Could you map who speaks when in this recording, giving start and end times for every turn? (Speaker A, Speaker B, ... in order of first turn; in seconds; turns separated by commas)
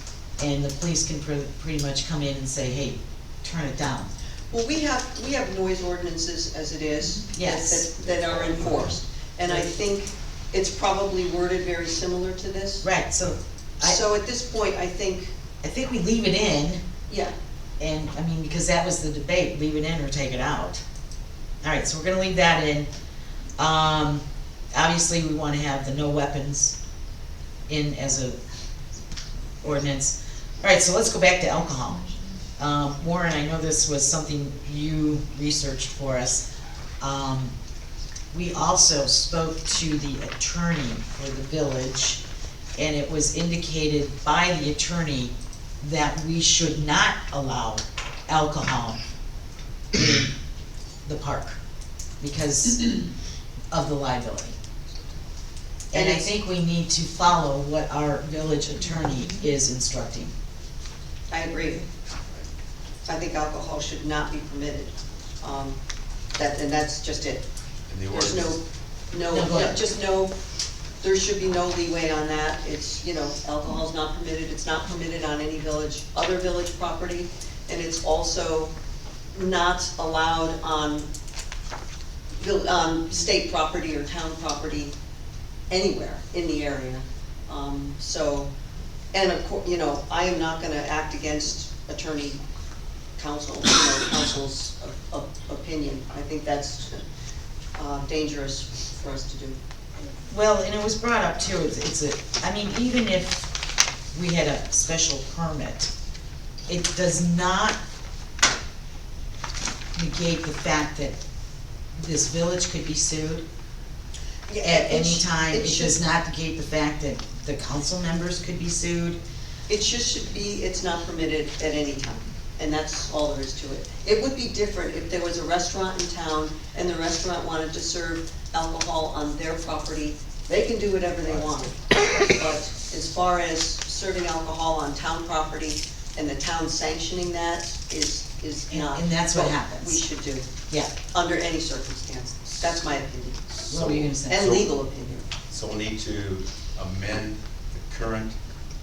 Speaker A: 0.4-4.1, Speaker B: 4.5-12.9, Speaker A: 7.3-7.9, Speaker C: 8.0-9.0, Speaker A: 12.8-14.0, Speaker B: 13.8-15.3, Speaker A: 15.6-16.8, Speaker B: 17.1-17.3, Speaker A: 17.8-20.8, Speaker A: 21.6-22.9, Speaker A: 23.6-26.8, Speaker A: 27.7-28.4, Speaker A: 29.6-32.0, Speaker A: 32.6-36.5, Speaker A: 37.0-37.5, Speaker A: 38.3-42.2, Speaker A: 42.8-49.0, Speaker A: 49.9-50.3, Speaker A: 51.0-51.6, Speaker A: 52.2-52.9, Speaker A: 53.7-54.5, Speaker A: 55.9-60.3, Speaker B: 55.9-56.3, Speaker B: 61.3-61.8, Speaker B: 63.0-65.8, Speaker B: 66.3-67.4, Speaker C: 67.9-68.6, Speaker B: 68.1-70.3, Speaker A: 69.3-69.8, Speaker B: 71.0-78.7, Speaker B: 79.3-81.1, Speaker B: 82.4-84.9, Speaker B: 85.7-88.5, Speaker B: 89.1-92.4, Speaker B: 93.2-97.0, Speaker B: 97.8-99.6, Speaker A: 100.3-103.5, Speaker A: 104.1-105.9, Speaker A: 106.7-107.8, Speaker A: 109.9-111.2, Speaker A: 112.0-113.4, Speaker B: 114.5-116.0, Speaker A: 114.6-119.2, Speaker B: 119.7-140.5, Speaker A: 138.7-140.0, Speaker B: 141.1-143.7, Speaker C: 143.7-144.7, Speaker A: 143.7-144.4, Speaker B: 144.2-145.2, Speaker C: 145.5-148.4